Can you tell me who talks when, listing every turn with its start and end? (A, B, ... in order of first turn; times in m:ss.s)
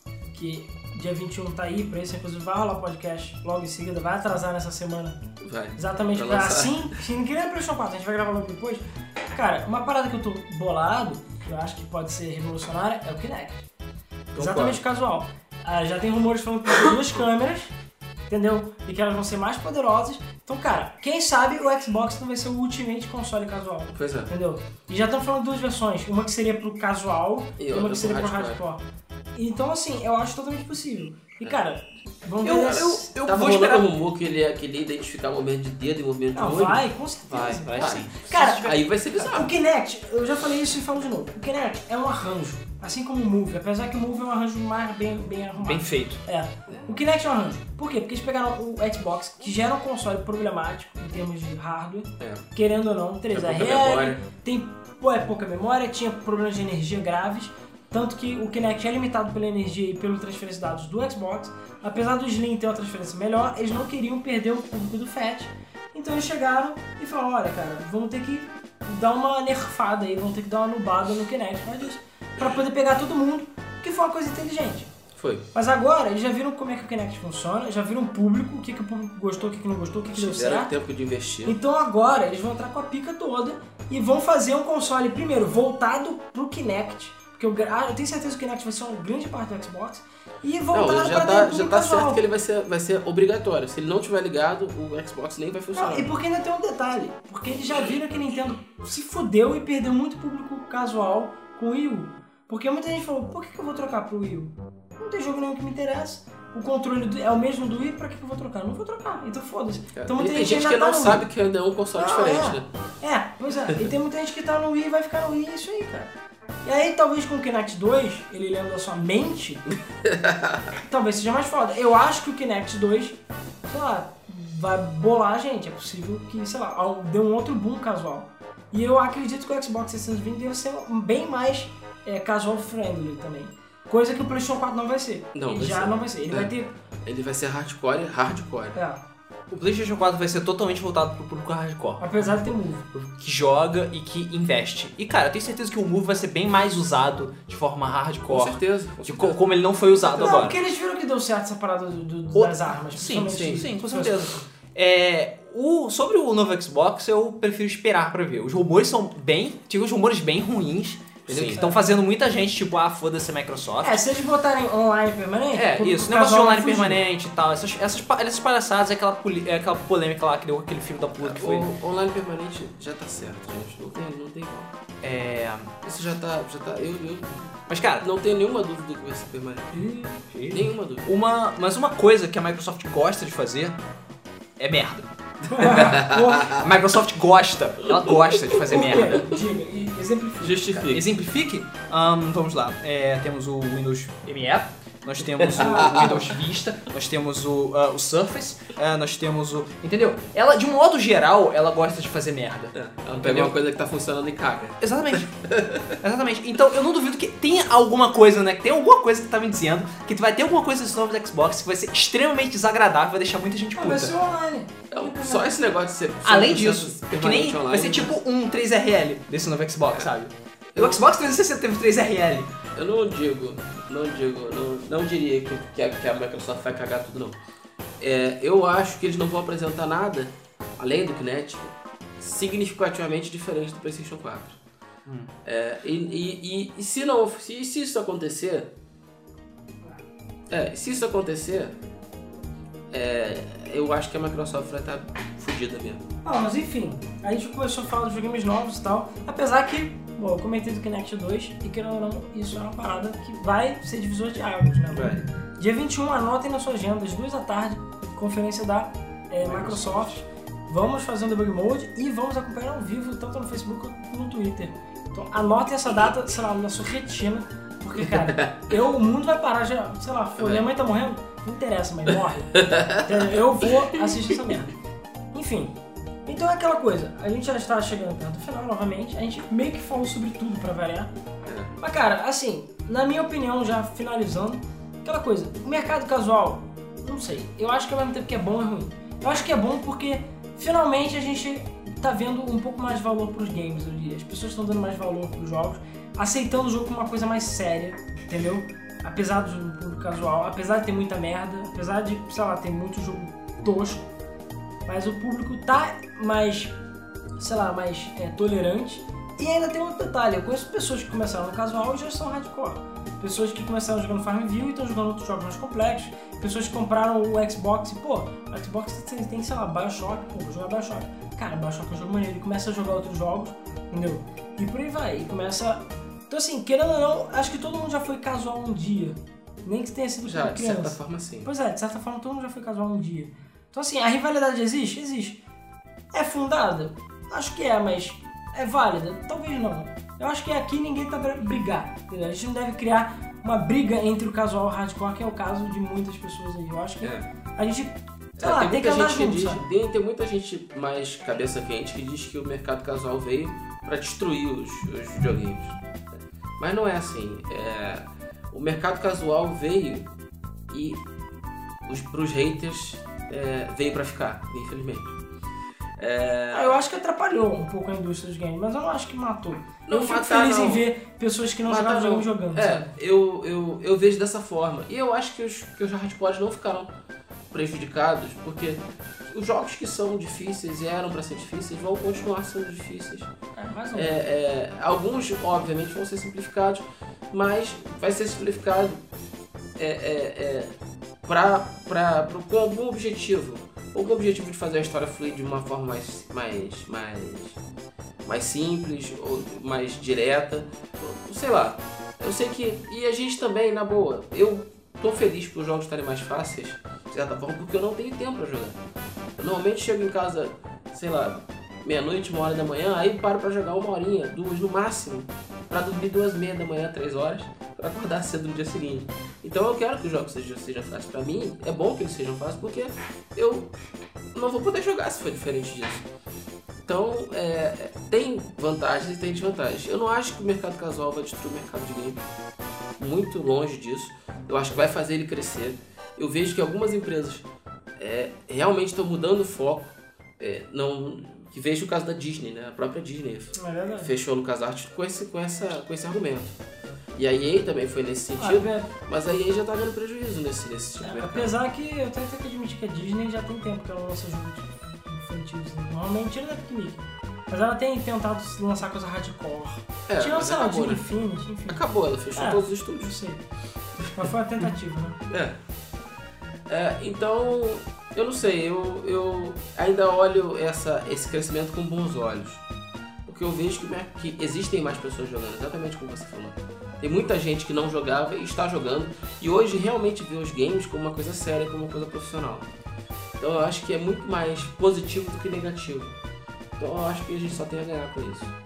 0:00.3-0:05.2 A
0:05.4-0:06.9 B
0:05.8-0:13.7 A
0:14.3-0:14.8 B
0:14.4-0:17.7 A
0:18.3-0:28.8 A
0:23.9-0:24.3 B
0:27.6-0:28.6 B
0:29.3-0:33.1 A
0:32.4-0:33.9 C
0:32.4-0:36.8 B
0:36.3-1:14.9 A
0:37.3-0:38.9 C
0:37.7-0:39.5 B
0:45.6-0:46.2 C
0:52.2-0:52.4 B
0:53.3-0:54.2 B
1:15.2-1:15.5 B
1:15.5-1:20.7 A
1:20.1-1:21.6 B
1:21.4-1:32.2 A
1:30.7-1:36.1 B
1:35.7-1:51.3 A
1:50.0-1:52.7 B
1:52.0-1:56.1 A
1:56.6-1:59.7 A
2:00.0-2:00.6 B
2:00.8-2:16.7 A
2:15.3-2:16.5 B
2:17.0-2:18.8 B
2:18.7-2:19.0 A
2:19.5-2:22.3 C
2:22.0-2:22.9 A
2:22.9-2:30.6 C
2:28.3-2:29.4 B
2:30.0-2:34.4 A
2:32.3-2:44.0 C
2:33.3-2:33.7 B
2:41.3-2:41.7 B
2:43.8-2:47.0 A
2:45.5-2:51.7 C
2:51.2-2:54.7 B
2:55.0-2:55.7 C
2:55.8-2:59.8 B
2:57.7-2:58.0 C
2:59.7-3:00.2 A
3:00.3-3:03.8 C
3:00.5-3:01.1 B
3:04.6-3:05.1 C
3:05.5-3:06.6 A
3:05.5-3:06.6 B
3:05.6-3:09.2 C
3:08.5-3:09.2 B
3:08.7-3:10.8 A
3:10.4-3:11.0 B
3:10.8-3:23.5 C
3:15.4-3:16.3 B
3:15.5-3:16.3 A
3:22.7-3:26.0 B
3:24.8-3:25.3 C
3:26.0-3:34.1 C
3:33.8-3:35.6 A
3:34.9-3:38.2 B
3:36.2-3:42.5 C
3:40.7-3:41.0 B
3:42.7-3:47.4 B
3:48.0-3:54.6 B
3:55.1-3:55.3 C
3:55.4-3:58.7 B
4:00.5-4:01.7 B
4:02.9-4:06.0 B
4:06.2-4:34.7 A
4:14.9-4:15.2 B
4:19.4-4:20.2 B
4:30.4-4:30.7 B
4:32.5-4:33.0 B
4:35.3-4:41.1 A
4:41.4-4:41.7 B
4:41.8-5:04.0 A
5:04.9-5:06.8 A
5:07.4-5:35.4 A
5:30.2-5:31.5 B
5:36.1-5:49.6 A
5:48.4-5:55.8 B
5:56.6-6:00.1 B
6:00.7-6:01.0 B
6:01.9-6:05.2 B
6:06.0-6:06.8 B
6:06.5-6:12.9 A
6:09.9-6:10.9 B
6:11.7-6:16.9 B
6:17.5-6:23.3 B
6:23.6-6:24.2 A
6:23.9-6:29.0 B
6:29.8-6:30.7 B
6:31.2-6:37.6 B
6:38.2-6:48.8 B
6:49.4-7:03.7 B
7:04.3-7:06.0 B
7:06.9-7:12.2 B
7:13.0-7:17.4 B
7:18.0-7:26.5 B
7:23.5-7:24.1 A
7:27.2-7:31.5 B
7:28.4-7:28.9 A
7:31.0-7:41.8 A
7:40.1-7:41.0 B
7:41.7-7:43.1 B
7:42.3-7:43.4 A
7:44.1-7:45.2 A
7:45.3-7:45.6 B
7:46.7-7:52.6 B
7:53.2-8:02.7 B
8:03.4-8:06.1 B
8:06.8-8:08.5 B